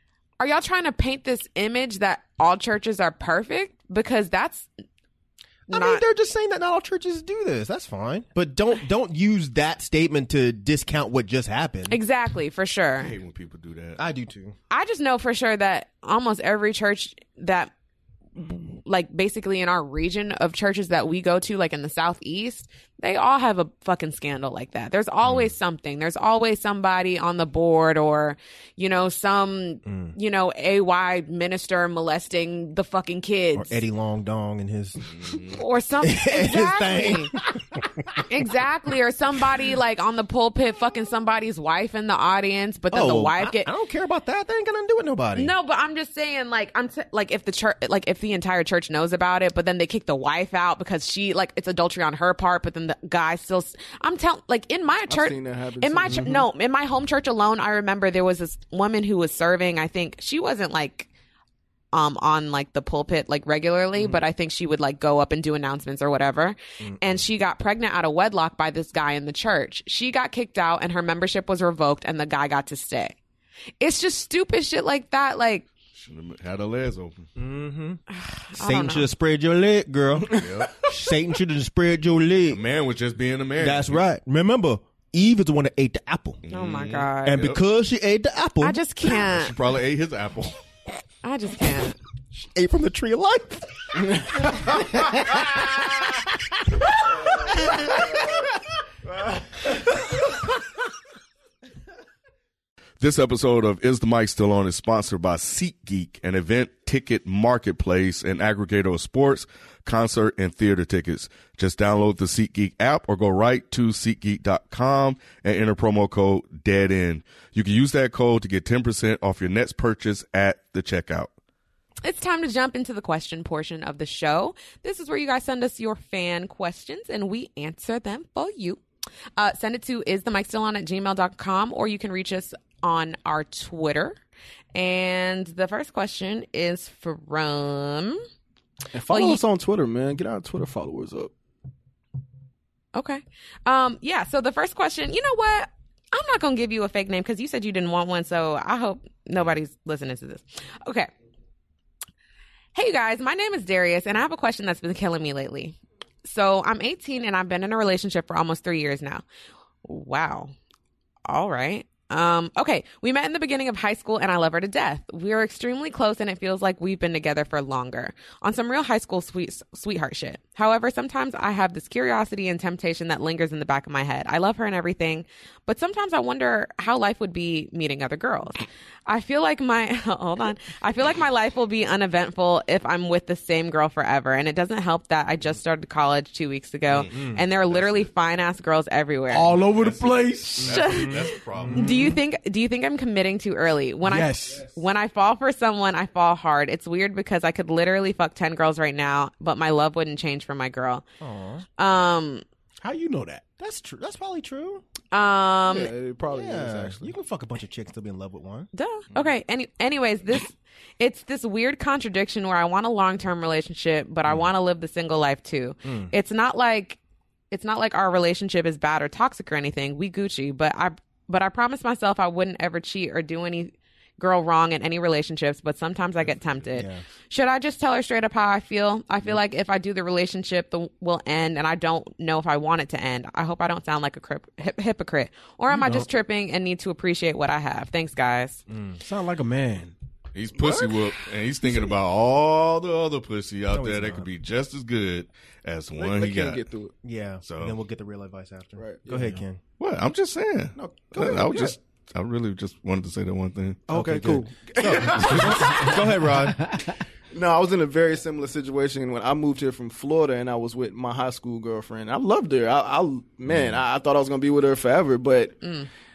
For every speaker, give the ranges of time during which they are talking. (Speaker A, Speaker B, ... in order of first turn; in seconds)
Speaker A: 0.4-4.7, 5.7-6.0, 11.9-13.1, 14.7-17.7, 18.4-33.8, 35.5-37.3, 38.2-43.7, 45.3-61.1, 61.9-73.2, 73.8-75.7, 78.1-79.1, 86.5-87.5, 88.6-89.5, 91.2-92.0, 122.0-128.8, 129.4-134.2, 134.7-138.2, 139.1-139.4, 142.9-151.1, 152.7-159.2, 159.8-160.5, 161.3-189.6, 190.5-201.0, 201.8-202.4, 205.1-205.9, 208.7-217.0, 217.5-238.6, 265.6-265.9
Speaker B: 5.7-12.0, 14.0-14.5, 25.2-25.5, 29.9-30.1, 33.5-35.4, 36.0-38.2, 42.9-45.5, 66.8-67.2, 77.3-78.0, 78.5-82.6, 83.6-86.4, 87.2-89.2, 92.3-98.2, 187.1-187.4, 191.6-192.1, 201.2-201.6, 203.6-204.8, 206.2-208.7, 215.8-216.1, 226.7-227.0, 238.7-239.0, 243.7-244.3, 247.0-249.6, 253.9-256.8, 263.5-263.8
Speaker C: 13.0-14.0, 35.1-35.6, 75.9-77.3, 80.3-80.7, 82.5-84.0, 86.4-87.6, 89.1-90.6, 103.0-121.3, 186.9-188.1, 189.7-191.9, 240.3-246.6, 247.4-247.8, 249.8-253.8
Speaker D: 55.1-56.4, 80.3-80.9, 138.9-141.3, 205.7-207.1, 240.6-241.0, 246.0-246.9, 248.8-249.1, 250.8-251.8, 253.9-256.1, 257.3-265.6
Speaker E: 189.3-190.8, 191.8-192.1, 194.0-194.7, 202.8-203.4, 235.7-236.0, 239.0-239.9, 249.1-249.4